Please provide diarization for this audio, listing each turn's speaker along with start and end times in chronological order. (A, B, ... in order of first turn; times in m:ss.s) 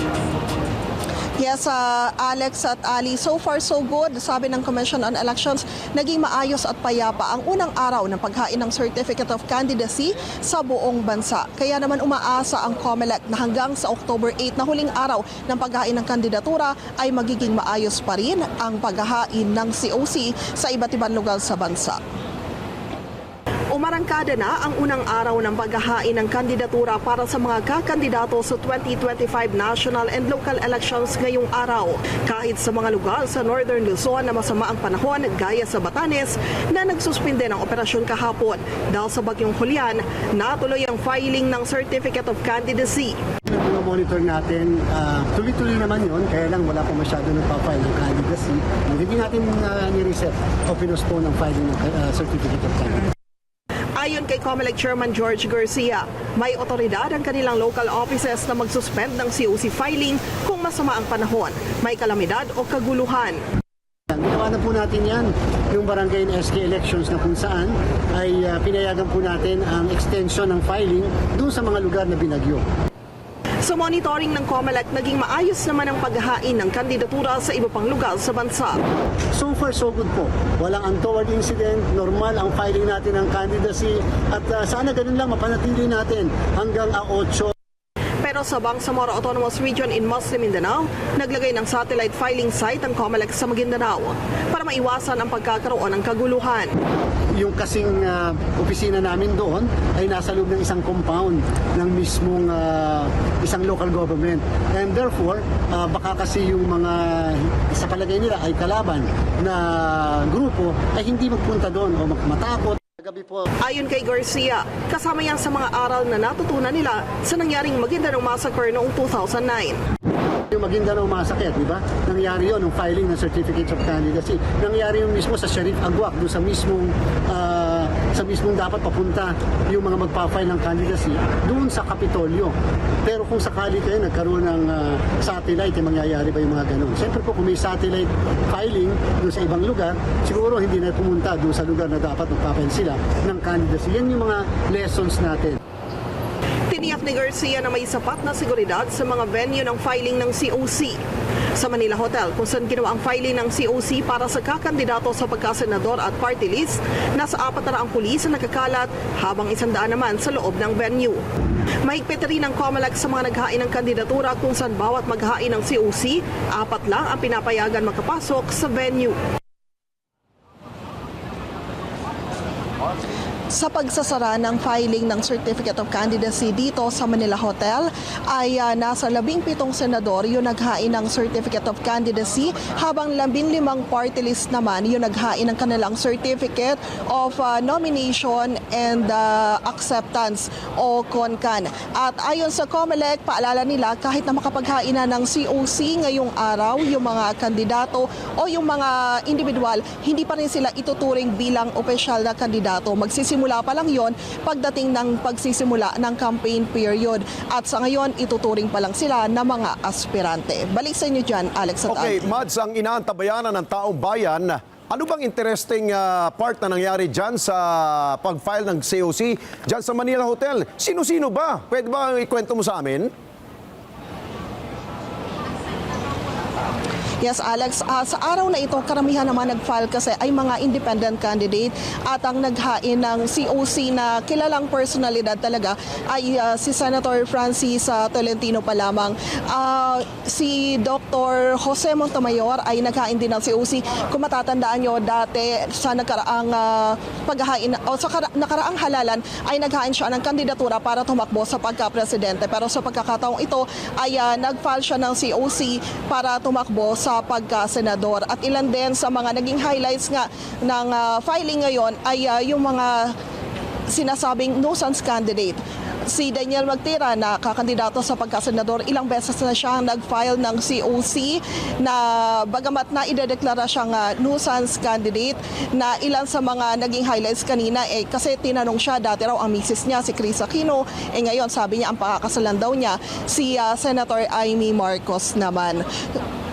0:01.4-0:22.0 A
0:23.7-0:43.2 A
0:43.5-0:53.1 B
0:54.0-1:03.4 A
1:04.1-1:12.6 B
1:13.6-1:18.8 A
1:19.3-1:27.5 B
1:28.2-1:36.7 A
1:37.4-1:53.5 B
1:53.6-1:59.8 A
2:00.5-2:12.5 B
2:13.0-2:25.6 B
2:26.7-2:31.0 A
2:31.6-2:41.2 A
2:41.8-2:49.2 A
2:53.5-3:32.3 A
3:31.9-3:43.1 C
3:47.2-4:23.2 A
4:23.9-4:45.8 A